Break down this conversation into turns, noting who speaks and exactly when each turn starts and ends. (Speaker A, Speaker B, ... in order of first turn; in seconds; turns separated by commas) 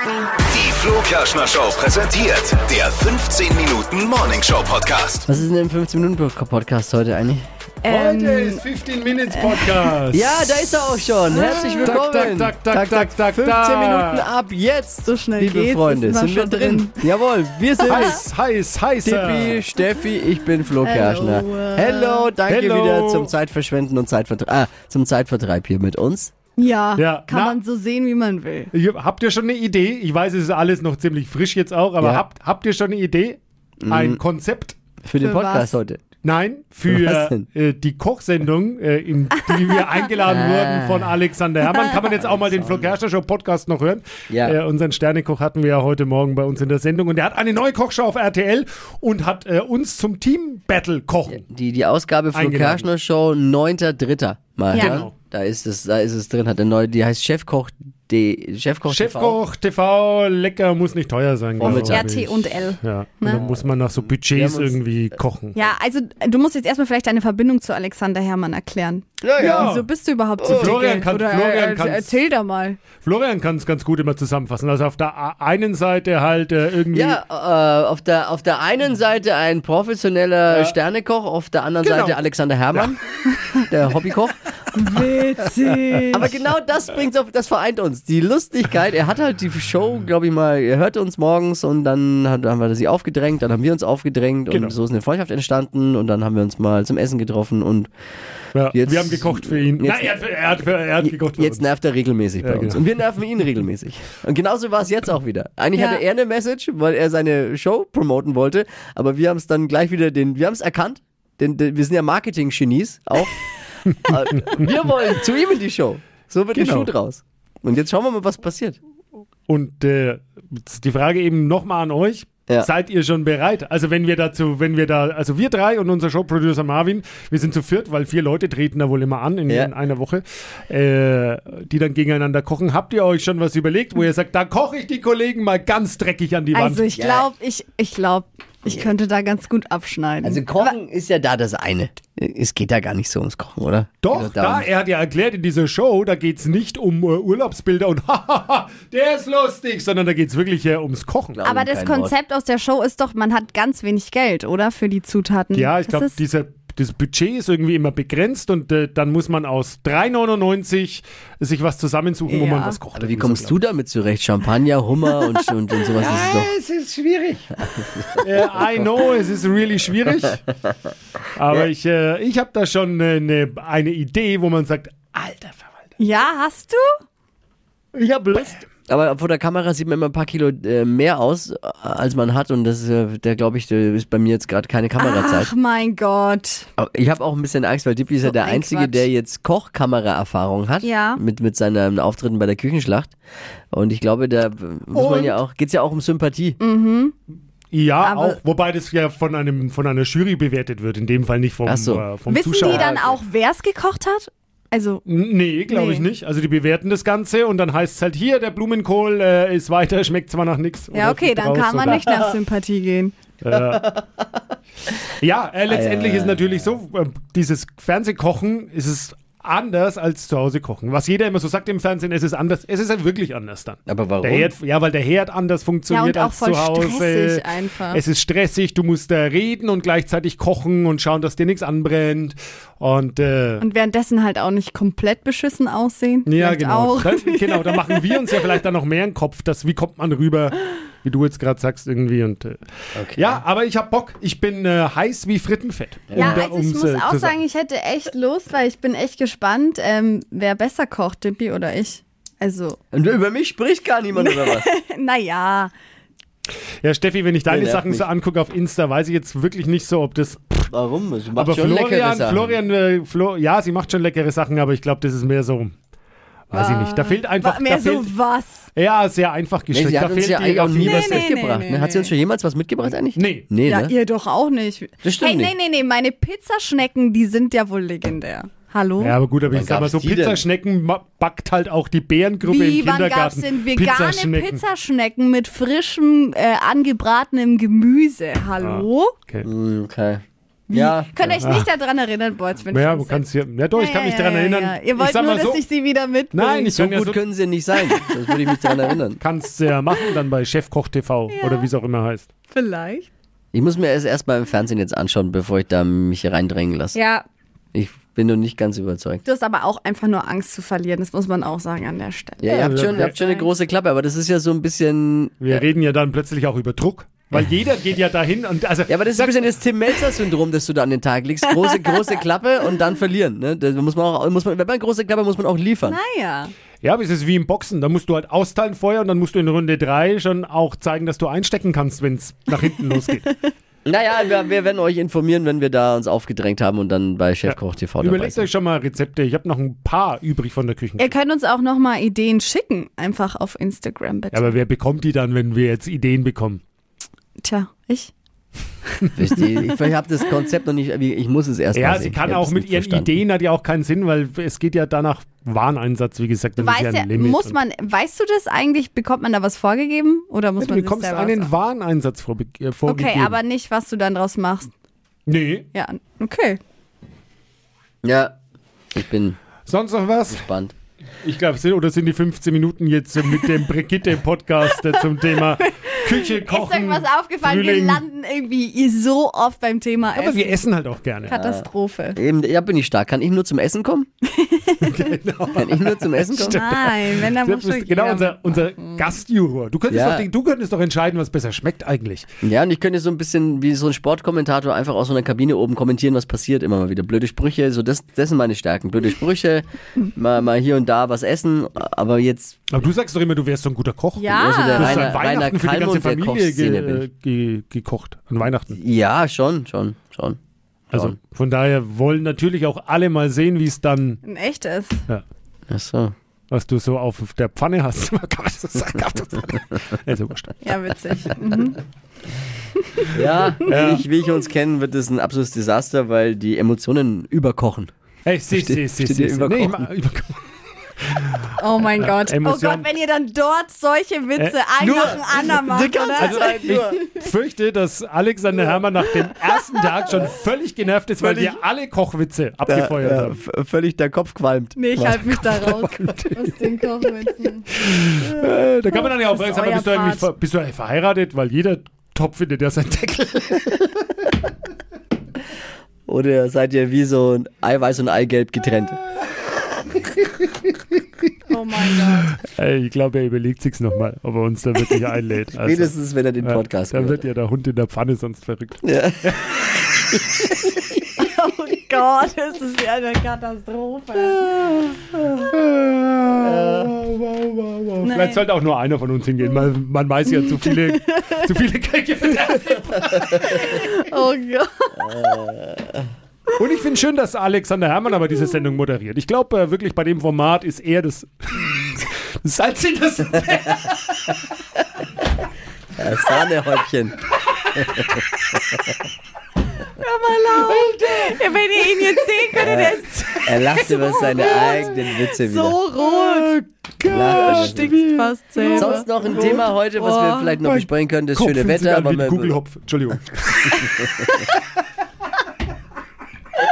Speaker A: 0.5-5.2, Speaker B: 5.3-7.5, Speaker C: 7.8-8.6, Speaker D: 7.9-10.8, Speaker C: 9.3-10.0, Speaker B: 10.1-18.2, Speaker C: 11.4-12.0, Speaker D: 11.8-14.2, Speaker C: 15.1-17.0, Speaker D: 17.8-19.7, Speaker C: 17.9-18.2, Speaker B: 19.0-26.3, Speaker C: 20.8-22.3, Speaker D: 22.5-23.4, Speaker C: 26.6-28.7, Speaker D: 27.0-27.6, Speaker D: 28.7-34.8, Speaker B: 33.8-34.2, Speaker B: 35.0-36.0, Speaker C: 35.2-35.8, Speaker D: 36.2-51.4, Speaker B: 36.9-37.4, Speaker B: 40.2-41.2, Speaker B: 42.1-43.0, Speaker B: 44.3-44.6, Speaker B: 51.3-59.4, Speaker D: 52.3-52.9, Speaker C: 54.7-55.1, Speaker D: 54.7-55.1, Speaker D: 58.9-65.6, Speaker B: 61.6-62.0, Speaker C: 61.6-63.5, Speaker B: 63.3-63.7, Speaker B: 64.3-64.8, Speaker C: 65.5-72.8, Speaker B: 69.2-69.8, Speaker D: 69.4-69.9, Speaker B: 70.4-70.8, Speaker D: 70.5-72.2, Speaker D: 73.0-77.2, Speaker B: 76.9-83.0, Speaker D: 80.5-80.8, Speaker D: 81.8-82.2, Speaker B: 83.7-84.4, Speaker C: 84.7-86.3, Speaker B: 86.1-97.9, Speaker D: 94.5-94.8, Speaker D: 98.5-101.7, Speaker B: 98.7-100.2, Speaker B: 101.0-118.8, Speaker D: 102.4-102.8, Speaker C: 105.8-106.0, Speaker D: 114.0-114.7, Speaker D: 116.5-116.9, Speaker D: 119.5-136.9, Speaker C: 136.5-140.8, Speaker B: 136.9-137.3, Speaker B: 140.2-144.7, Speaker D: 144.0-151.4, Speaker B: 151.3-152.1, Speaker C: 151.4-156.2, Speaker D: 155.5-163.6, Speaker C: 162.3-162.8, Speaker B: 162.9-166.5, Speaker D: 166.0-167.6, Speaker B: 167.8-168.2, Speaker D: 168.1-170.4, Speaker D: 171.3-175.8, Speaker C: 176.0-176.9, Speaker B: 177.9-185.5, Speaker C: 185.0-186.7, Speaker B: 186.8-193.2, Speaker C: 188.2-189.1, Speaker C: 190.8-191.2, Speaker B: 193.7-196.6, Speaker D: 194.9-195.4, Speaker C: 196.6-197.2, Speaker D: 197.7-203.2, Speaker C: 198.0-198.4, Speaker B: 201.7-202.1, Speaker C: 202.3-205.0, Speaker B: 202.6-203.0, Speaker D: 205.1-212.1, Speaker C: 205.7-206.1, Speaker C: 210.9-213.1, Speaker D: 213.4-213.9, Speaker B: 213.6-214.2, Speaker D: 215.2-233.6, Speaker B: 215.7-216.7, Speaker B: 223.9-224.5, Speaker C: 225.9-228.0, Speaker C: 233.6-238.4, Speaker D: 236.2-242.6, Speaker B: 242.9-243.4, Speaker D: 243.2-247.4, Speaker B: 246.1-246.4, Speaker C: 246.1-252.8, Speaker B: 252.9-254.7, Speaker C: 254.1-255.7, Speaker D: 256.8-260.7, Speaker B: 257.5-258.1, Speaker B: 260.7-262.6, Speaker D: 261.4-265.7, Speaker D: 266.5-268.1, Speaker C: 266.5-268.7, Speaker D: 268.8-271.3, Speaker B: 269.7-273.9, Speaker C: 270.8-272.1, Speaker D: 273.1-273.5, Speaker C: 273.6-279.2, Speaker B: 275.0-275.5, Speaker D: 279.0-284.6, Speaker B: 279.5-280.4, Speaker C: 282.4-289.1, Speaker D: 288.6-289.5, Speaker B: 289.4-291.4, Speaker C: 290.7-296.8, Speaker D: 291.4-291.7, Speaker D: 292.7-295.6, Speaker D: 296.3-297.2, Speaker B: 296.8-299.2, Speaker C: 297.9-298.9, Speaker D: 299.2-302.3, Speaker C: 301.3-301.7, Speaker C: 302.5-303.1, Speaker B: 303.5-307.0, Speaker C: 306.9-307.2, Speaker B: 307.7-309.2, Speaker C: 309.2-313.5, Speaker B: 312.4-315.6, Speaker D: 312.6-313.1, Speaker D: 315.4-319.4, Speaker B: 318.9-326.0, Speaker C: 321.5-322.1, Speaker C: 325.9-326.5, Speaker D: 326.8-333.3, Speaker B: 333.9-338.5, Speaker D: 337.4-341.1, Speaker C: 341.0-344.6, Speaker D: 344.3-346.6, Speaker C: 347.4-348.1, Speaker B: 349.2-353.1, Speaker D: 351.7-357.6, Speaker C: 356.6-361.5, Speaker D: 360.6-363.4, Speaker C: 362.8-364.7, Speaker D: 365.3-365.7, Speaker C: 365.7-366.6, Speaker B: 368.0-368.4, Speaker B: 368.9-369.4, Speaker D: 369.7-370.5, Speaker B: 370.3-370.7, Speaker D: 371.2-378.1, Speaker C: 373.4-373.7, Speaker C: 374.8-380.6, Speaker D: 380.2-381.4, Speaker C: 381.2-382.2, Speaker B: 381.3-384.1, Speaker C: 384.3-385.0, Speaker D: 384.8-392.3, Speaker B: 385.6-386.6, Speaker C: 386.4-389.0, Speaker B: 389.9-390.3, Speaker B: 392.4-402.8, Speaker D: 402.7-408.8, Speaker C: 404.2-405.1, Speaker B: 404.3-407.0, Speaker B: 408.8-410.4, Speaker B: 410.9-411.2, Speaker D: 410.9-414.2, Speaker C: 414.2-415.0, Speaker B: 415.7-416.1, Speaker D: 416.5-421.3, Speaker C: 420.6-421.8, Speaker B: 423.1-427.9, Speaker D: 423.7-424.1, Speaker D: 428.2-430.5, Speaker B: 428.5-429.9, Speaker D: 431.0-432.9, Speaker C: 431.6-436.9, Speaker B: 434.8-437.0, Speaker D: 436.2-443.4, Speaker B: 441.2-441.6, Speaker B: 442.7-445.3, Speaker C: 444.8-447.7, Speaker D: 445.3-446.6, Speaker D: 447.8-453.9, Speaker C: 448.9-450.3, Speaker B: 456.1-459.0, Speaker C: 461.5-462.4, Speaker D: 462.4-469.7, Speaker B: 465.6-467.2, Speaker B: 468.8-469.4, Speaker B: 470.2-470.8, Speaker C: 471.2-475.2, Speaker D: 475.4-483.9, Speaker C: 478.0-478.4, Speaker C: 480.3-481.4, Speaker C: 483.4-485.5, Speaker B: 485.0-486.0, Speaker D: 486.6-494.4, Speaker B: 496.0-497.2, Speaker B: 497.8-498.2, Speaker C: 499.9-506.6, Speaker D: 500.7-502.1, Speaker B: 502.6-505.8, Speaker D: 506.0-509.6, Speaker B: 507.1-508.0, Speaker C: 507.1-510.6, Speaker B: 508.7-512.6, Speaker D: 510.6-514.3